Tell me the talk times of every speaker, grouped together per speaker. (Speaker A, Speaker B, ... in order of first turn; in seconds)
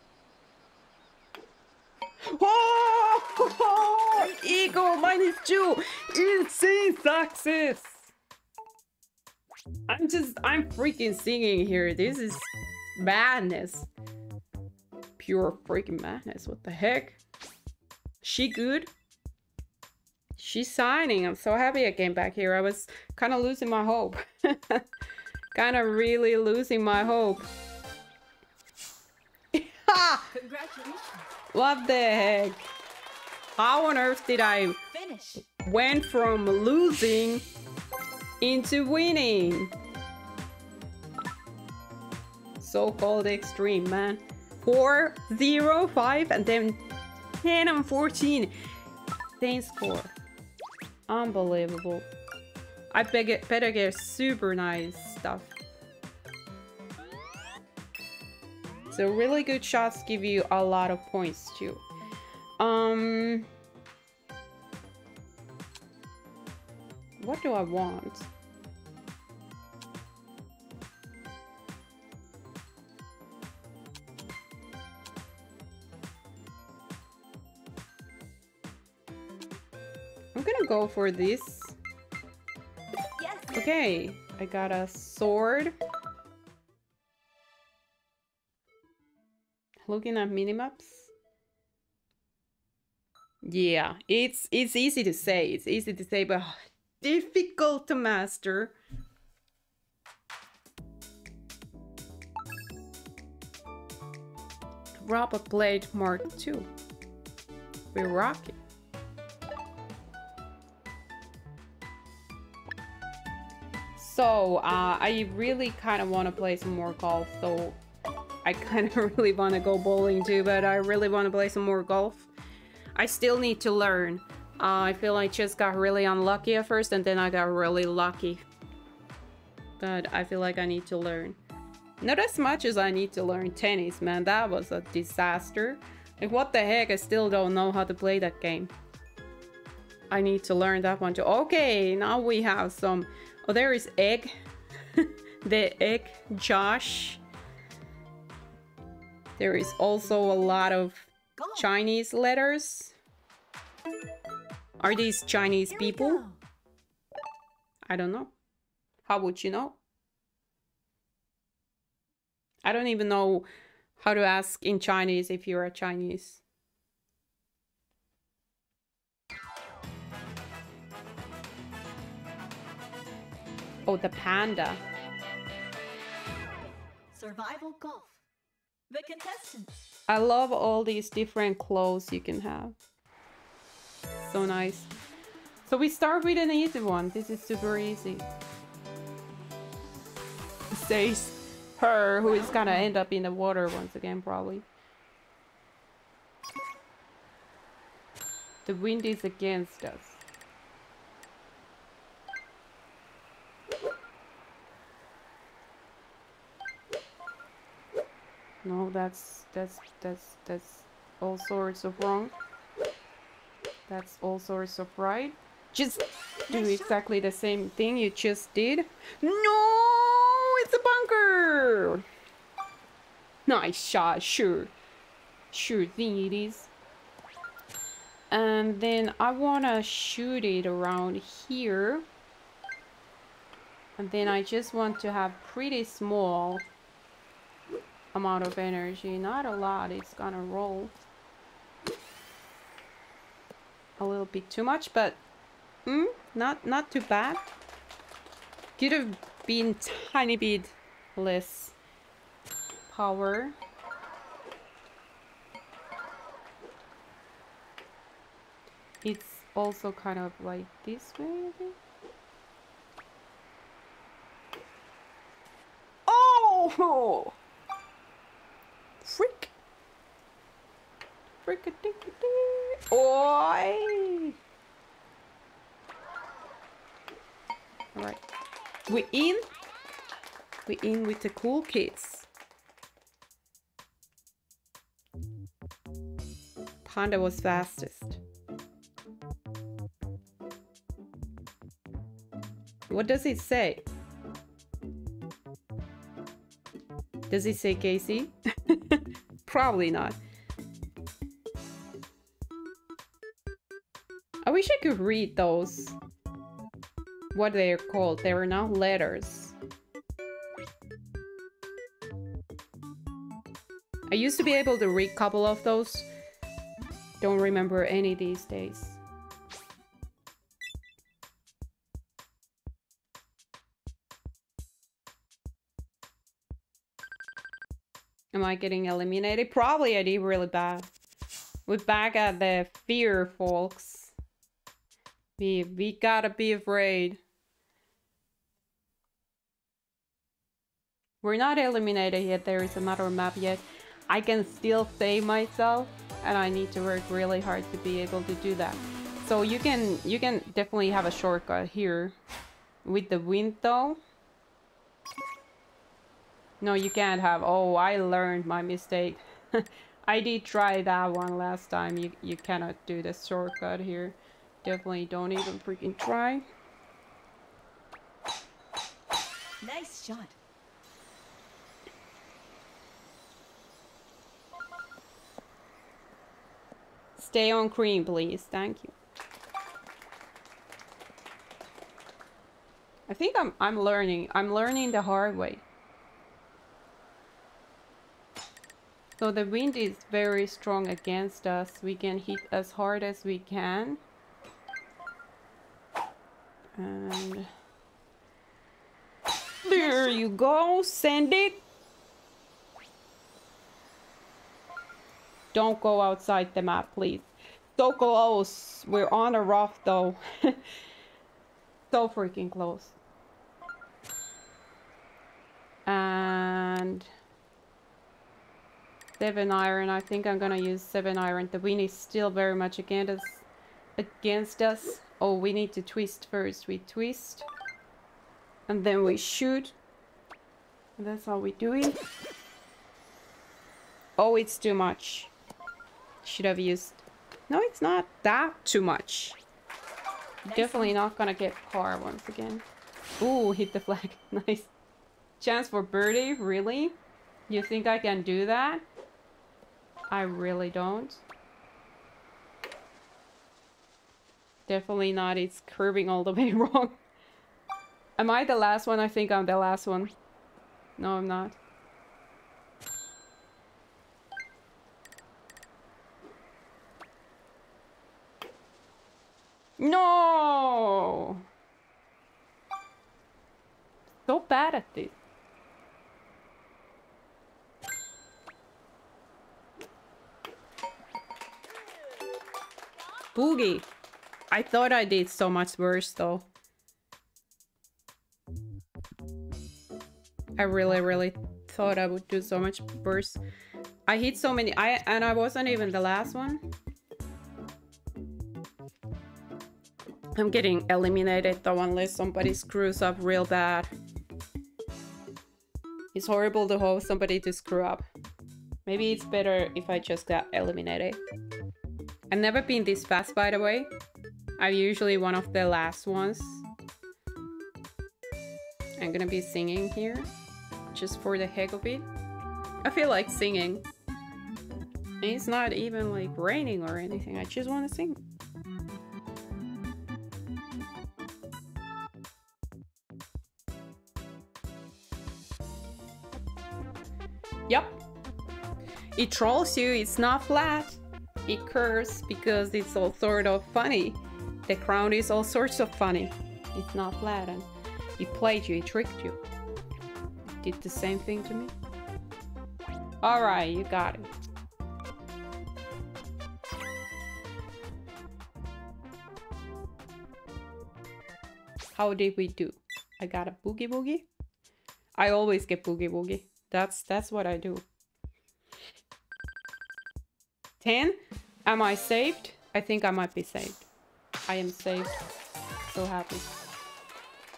Speaker A: 2.3-8.1, 9.9-12.5, 13.0-13.9, 15.2-17.2, 18.2-18.9, 20.4-24.8, 25.5-27.5, 29.5-30.3, 31.5-32.7, 33.6-34.8, 35.5-37.5, 38.4-39.7, 42.6-46.8, 47.4-48.5, 49.4-50.1, 51.1-52.1, 52.9-55.6, 58.9-61.8, 62.6-63.5, 67.2-68.3, 80.3-81.8, 83.5-85.7, 89.8-91.1, 93.4-98.8, 105.0-106.7, 107.9-108.6, 114.0-117.8, 118.4-122.3, 123.0-128.4, 129.8-131.4, 132.0-138.7, 140.1-144.3, 144.9-147.2, 149.4-153.0, 154.8-156.2, 157.9-158.3, 159.1-159.8, 162.6-166.4, 173.9-174.8, 180.1-182.8, 184.2-184.9, 185.7-188.3, 190.7-194.7, 198.7-200.2, 208.6-212.3, 213.9-222.1, 223.5-224.7, 225.5-226.7, 228.3-232.1, 234.0-236.7, 238.1-241.0, 244.0-245.2, 245.9-247.4, 248.8-251.8, 252.9-253.6, 259.0-261.8, 266.1-267.4, 269.0-269.5, 271.4-274.3, 277.9-278.2, 278.9-279.4, 280.7-282.3, 286.9-288.2, 292.9-293.9, 297.3-300.2, 304.4-306.0, 307.3-309.6, 314.1-316.1, 317.2-319.0, 328.3-330.9, 331.7-334.1, 335.4-337.2, 341.2-352.2, 352.8-354.0, 356.6-366.4, 377.2-378.9, 383.1-385.6, 389.2-394.0, 396.8-397.5, 399.6-401.6, 405.5-410.6, 411.9-413.0, 415.9-417.1, 419.2-427.5, 428.7-429.8, 431.0-432.0, 434.2-435.3, 436.2-439.4, 440.6-442.7, 443.2-444.7, 445.4-447.0, 447.5-448.9, 450.1-451.2, 454.7-457.0, 458.2-460.1, 461.0-461.6, 469.8-471.4, 474.3-475.2, 483.4-483.9, 484.5-486.5, 490.6-493.4, 494.1-496.6, 500.4-503.9, 506.1-508.0, 508.9-511.2, 512.3-513.9, 514.6-516.7, 519.0-520.3, 520.9-522.1, 522.9-523.9, 525.2-528.2, 537.7-538.0, 539.2-549.4, 550.6-551.7, 553.2-554.3, 561.9-564.3, 565.2-567.9, 570.8-573.9, 574.5-575.1, 575.9-576.5
Speaker B: 30.3-31.3, 34.9-35.5, 83.2-83.6, 151.4-151.7, 155.7-156.4, 177.1-178.2, 178.9-179.7, 192.2-192.9, 216.5-217.0, 369.6-370.4, 399.8-400.2, 440.4-440.9